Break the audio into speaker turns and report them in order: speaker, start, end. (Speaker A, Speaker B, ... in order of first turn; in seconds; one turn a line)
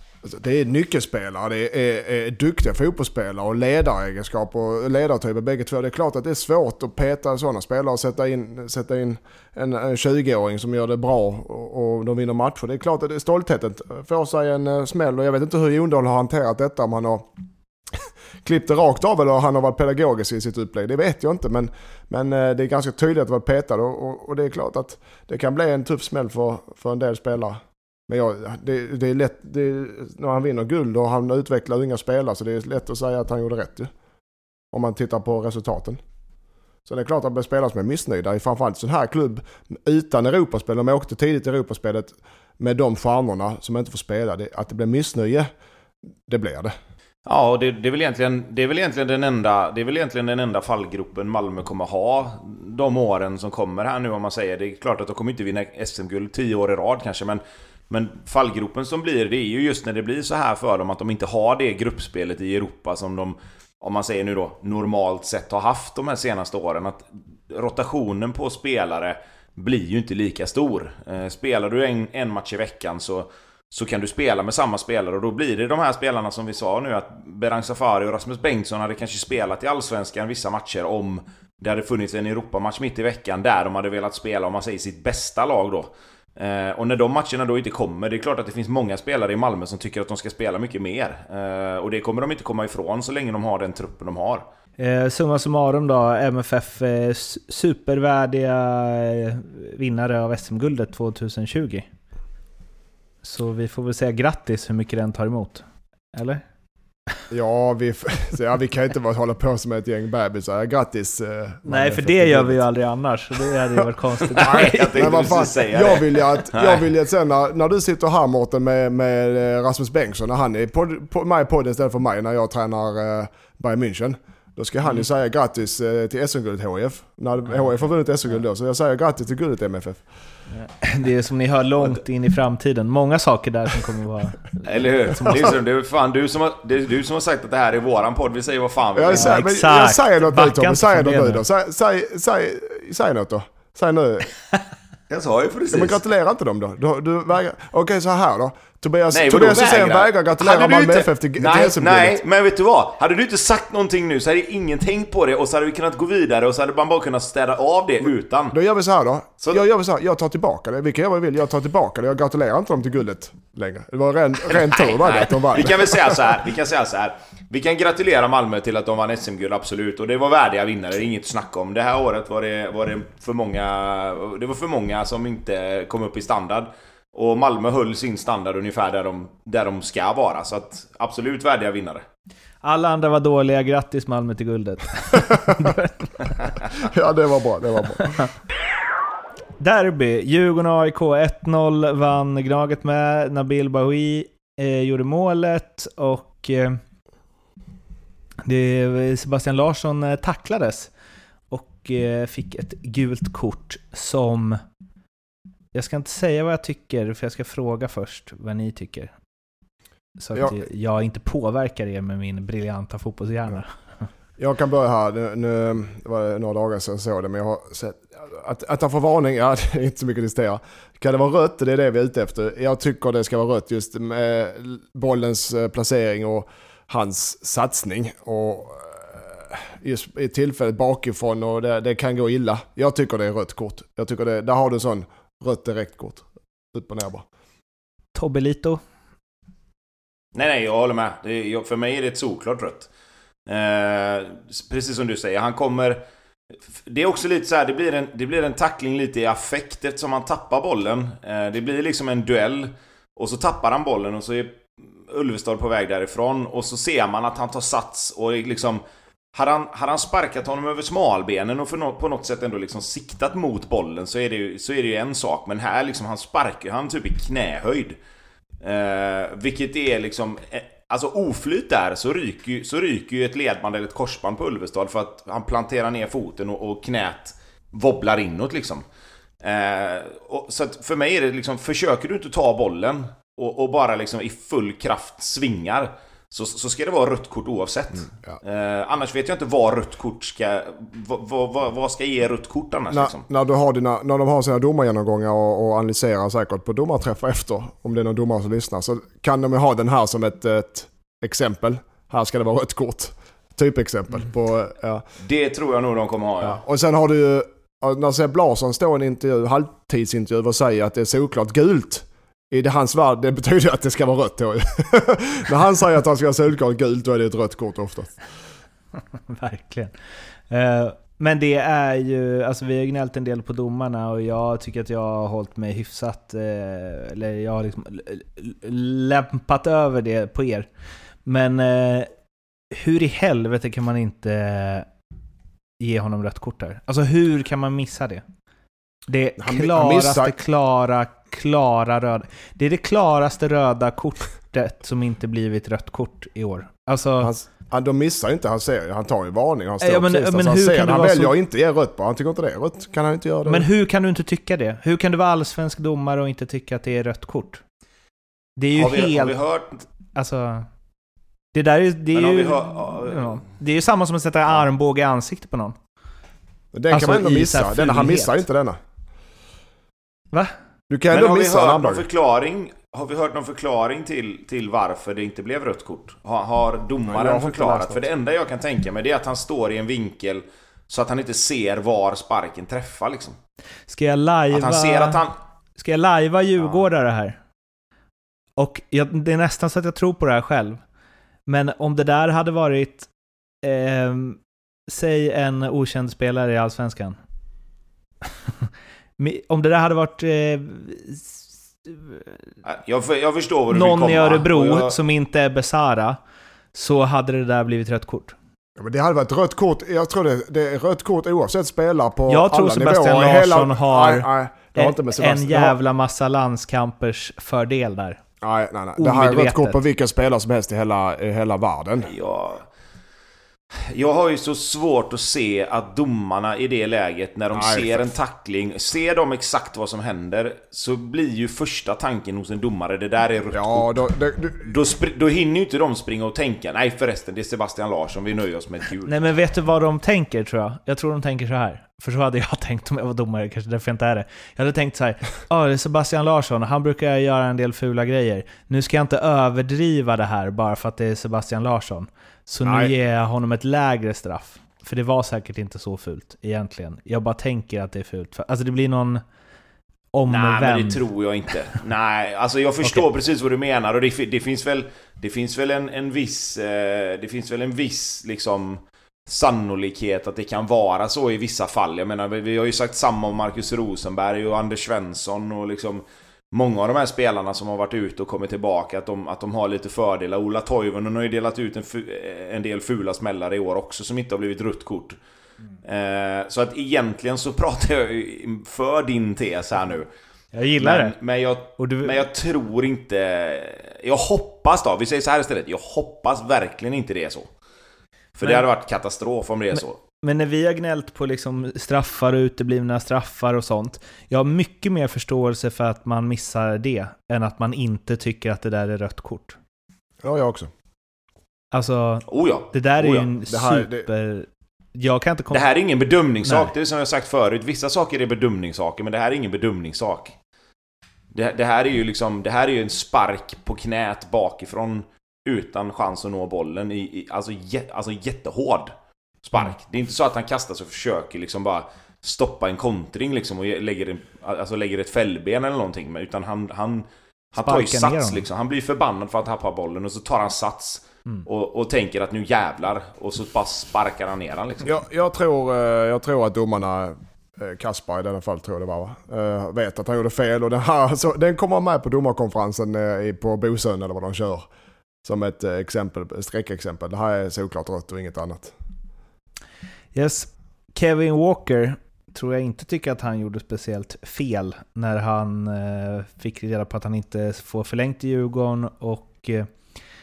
Speaker A: 0.2-17.3
Speaker A: 17.9-33.9
Speaker A: 34.7-36.0
Speaker A: 36.9-45.5
Speaker A: 46.3-46.7
Speaker B: 47.3-94.5
Speaker C: 94.8-101.9
Speaker C: 103.2-106.4
Speaker A: 107.3-112.6
Speaker C: 111.7-115.5
Speaker A: 113.7-130.0
Speaker B: 114.3-116.9
Speaker C: 130.6-135.3
Speaker B: 134.6-139.4
Speaker A: 139.0-144.3
Speaker C: 139.1-141.4
Speaker B: 145.1-146.0
Speaker A: 145.7-152.2
Speaker B: 149.1-158.6
Speaker A: 158.5-166.2
Speaker B: 164.5-182.0
Speaker C: 182.6-186.5
Speaker A: 186.7-188.3
Speaker C: 188.0-188.3
Speaker C: 189.6-196.8
Speaker C: 198.4-200.9
Speaker C: 201.5-204.6
Speaker C: 205.7-209.1
Speaker C: 210.2-213.7
Speaker A: 214.4-237.2
Speaker C: 238.2-238.8
Speaker B: 240.3-242.9
Speaker B: 243.5-246.0
Speaker B: 246.8-268.0
Speaker B: 268.6-278.8
Speaker B: 279.4-293.2
Speaker A: 292.9-305.0
Speaker B: 305.2-306.6
Speaker A: 306.4-318.2
Speaker C: 319.3-319.9
Speaker C: 320.5-330.7
Speaker C: 331.2-332.1
Speaker C: 332.7-334.9
Speaker C: 335.8-338.2
Speaker C: 339.1-347.3
Speaker A: 339.4-340.4
Speaker A: 347.2-353.7
Speaker C: 349.8-351.3
Speaker C: 353.5-357.6
Speaker C: 358.6-359.4
Speaker B: 358.7-359.9
Speaker C: 360.1-360.7
Speaker C: 361.5-365.8
Speaker B: 362.1-363.4
Speaker A: 366.7-368.8
Speaker C: 366.9-368.4
Speaker A: 370.9-372.0
Speaker B: 371.1-383.4
Speaker A: 377.1-378.1
Speaker C: 383.9-385.2
Speaker B: 384.5-385.4
Speaker C: 385.8-387.4
Speaker C: 388.6-390.8
Speaker C: 391.5-393.1
Speaker C: 393.6-397.2
Speaker C: 398.6-402.4
Speaker B: 402.6-405.0
Speaker C: 403.7-406.2
Speaker C: 406.7-408.4
Speaker A: 408.8-415.8
Speaker C: 412.3-418.2
Speaker A: 418.4-422.1
Speaker C: 419.0-419.8
Speaker B: 422.0-422.7
Speaker B: 423.7-434.0
Speaker A: 427.5-428.1
Speaker A: 433.5-434.7
Speaker B: 434.6-439.1
Speaker C: 439.1-459.2
Speaker A: 452.6-452.9
Speaker C: 460.1-461.0
Speaker B: 460.3-485.2
Speaker B: 485.8-490.1
Speaker C: 490.5-491.1
Speaker B: 490.8-497.5
Speaker C: 491.8-492.2
Speaker B: 498.4-500.0
Speaker C: 499.8-509.6
Speaker A: 510.2-510.7
Speaker C: 511.7-515.7
Speaker B: 512.3-513.3
Speaker A: 513.5-514.1
Speaker B: 515.5-520.4
Speaker C: 516.4-516.7
Speaker B: 521.3-545.0
Speaker C: 537.6-538.5
Speaker A: 544.8-554.7
Speaker A: 555.2-558.8
Speaker C: 560.1-569.7